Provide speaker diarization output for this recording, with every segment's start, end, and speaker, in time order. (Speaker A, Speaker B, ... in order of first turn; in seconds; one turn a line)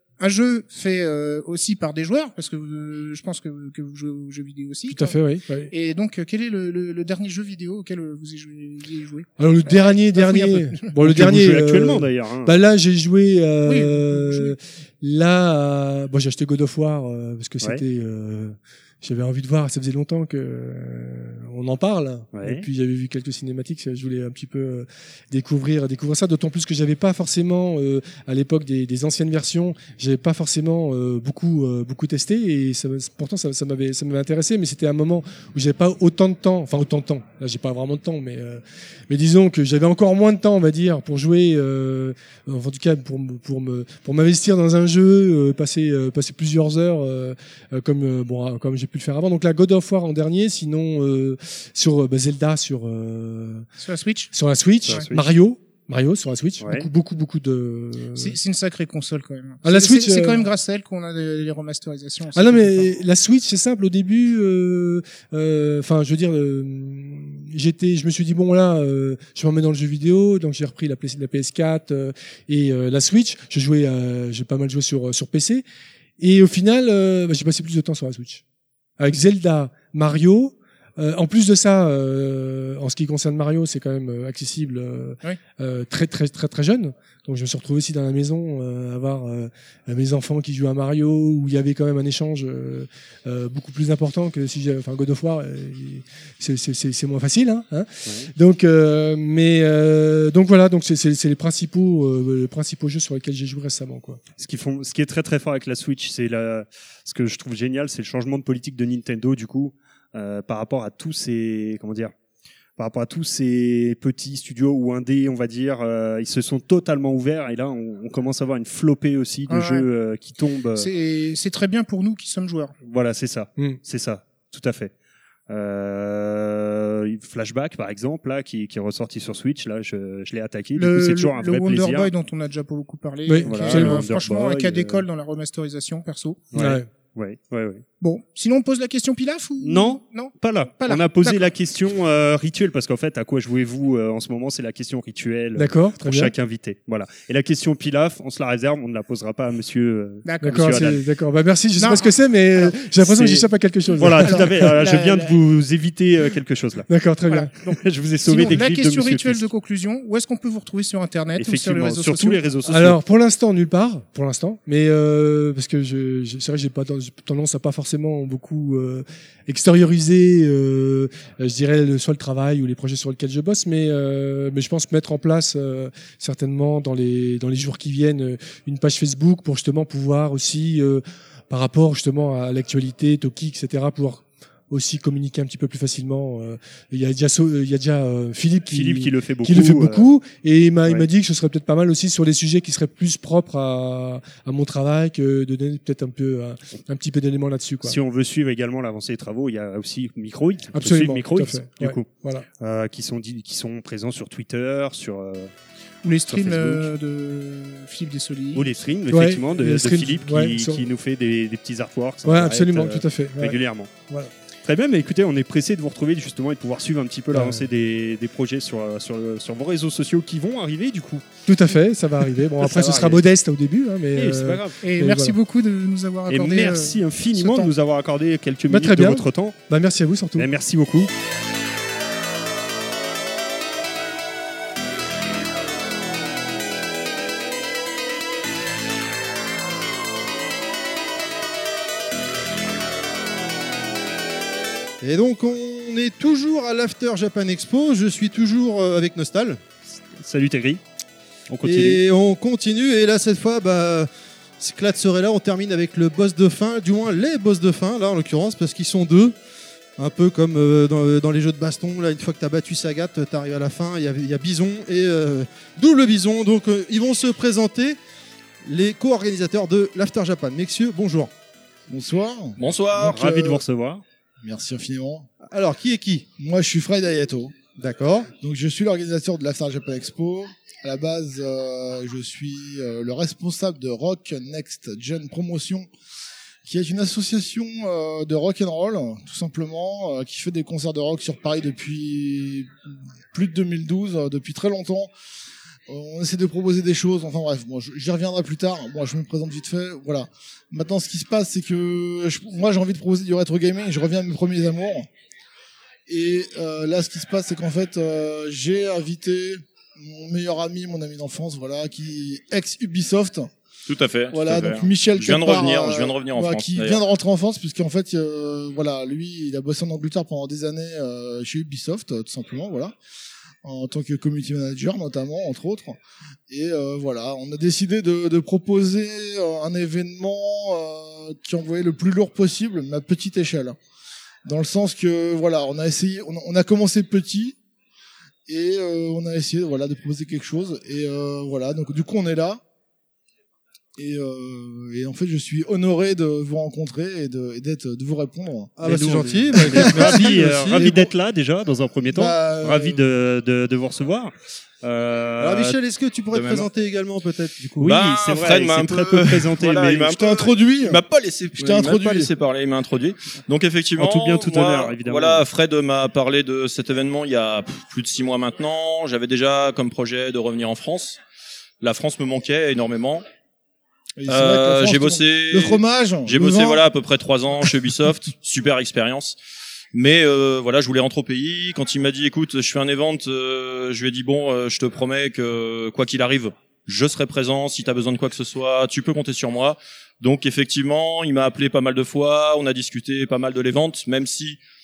Speaker A: 0.2-5.2
Speaker B: 4.9-5.7
Speaker A: 5.7-11.0
Speaker B: 9.4-53.6
Speaker C: 11.0-12.6
Speaker A: 13.6-14.5
Speaker C: 22.3-22.7
Speaker A: 53.8-54.3
Speaker B: 54.3-58.4
Speaker C: 54.9-55.3
Speaker C: 56.6-56.9
Speaker A: 58.1-63.0
Speaker B: 59.6-60.5
Speaker B: 62.3-75.6
Speaker B: 76.2-78.4
Speaker B: 79.0-104.2
Speaker C: 104.4-112.1
Speaker C: 112.8-120.9
Speaker A: 119.5-119.9
Speaker A: 120.7-122.7
Speaker C: 122.8-124.9
Speaker B: 123.5-123.8
Speaker C: 125.5-132.1
Speaker A: 130.7-136.5
Speaker B: 133.2-134.1
Speaker C: 133.4-135.0
Speaker C: 136.5-137.8
Speaker B: 136.5-136.9
Speaker A: 138.0-141.5
Speaker C: 139.6-151.0
Speaker B: 145.6-146.3
Speaker A: 150.2-150.8
Speaker B: 150.4-154.7
Speaker A: 151.7-152.9
Speaker C: 153.0-156.9
Speaker A: 154.0-155.4
Speaker B: 156.9-157.5
Speaker A: 157.2-162.4
Speaker C: 157.7-159.5
Speaker C: 161.3-163.0
Speaker B: 162.7-198.0
Speaker C: 188.7-190.1
Speaker C: 197.8-205.5
Speaker B: 200.7-202.4
Speaker A: 206.0-208.8
Speaker C: 206.3-206.9
Speaker C: 208.5-213.9
Speaker B: 209.1-210.8
Speaker B: 212.2-214.3
Speaker C: 214.6-221.2
Speaker B: 217.3-217.6
Speaker B: 221.4-225.4
Speaker C: 222.6-223.2
Speaker C: 224.1-224.8
Speaker A: 224.8-227.7
Speaker C: 226.3-229.6
Speaker B: 228.7-230.5
Speaker C: 230.4-231.1
Speaker D: 245.0-249.6
Speaker C: 250.1-250.8
Speaker C: 251.5-252.0
Speaker D: 251.6-254.1
Speaker D: 254.6-259.4
Speaker D: 260.0-268.0
Speaker D: 268.6-271.3
Speaker E: 271.9-272.6
Speaker F: 272.6-273.2
Speaker C: 272.9-274.0
Speaker E: 273.3-273.6
Speaker E: 274.4-275.3
Speaker D: 275.4-276.2
Speaker E: 276.4-277.5
Speaker D: 277.8-278.3
Speaker E: 278.4-285.9
Speaker E: 286.6-292.7
Speaker E: 293.3-295.1
Speaker E: 295.9-305.1
Speaker E: 306.1-313.5
Speaker F: 313.9-317.0
Speaker E: 314.3-322.9
Speaker E: 323.6-326.0
Speaker E: 326.5-333.8
Speaker E: 334.4-337.6
Speaker E: 338.5-342.6
Speaker E: 344.0-348.8
Speaker D: 348.8-351.1
Speaker C: 348.8-355.7
Speaker E: 349.6-350.3
Speaker E: 352.1-353.0
Speaker D: 355.4-357.9
Speaker F: 356.3-356.7
Speaker C: 357.8-360.2
Speaker F: 357.8-371.2
Speaker E: 360.1-361.0
Speaker E: 361.6-362.3
Speaker C: 364.0-365.4
Speaker F: 371.8-373.2
Speaker E: 374.2-376.8
Speaker F: 374.3-379.4
Speaker F: 379.9-394.6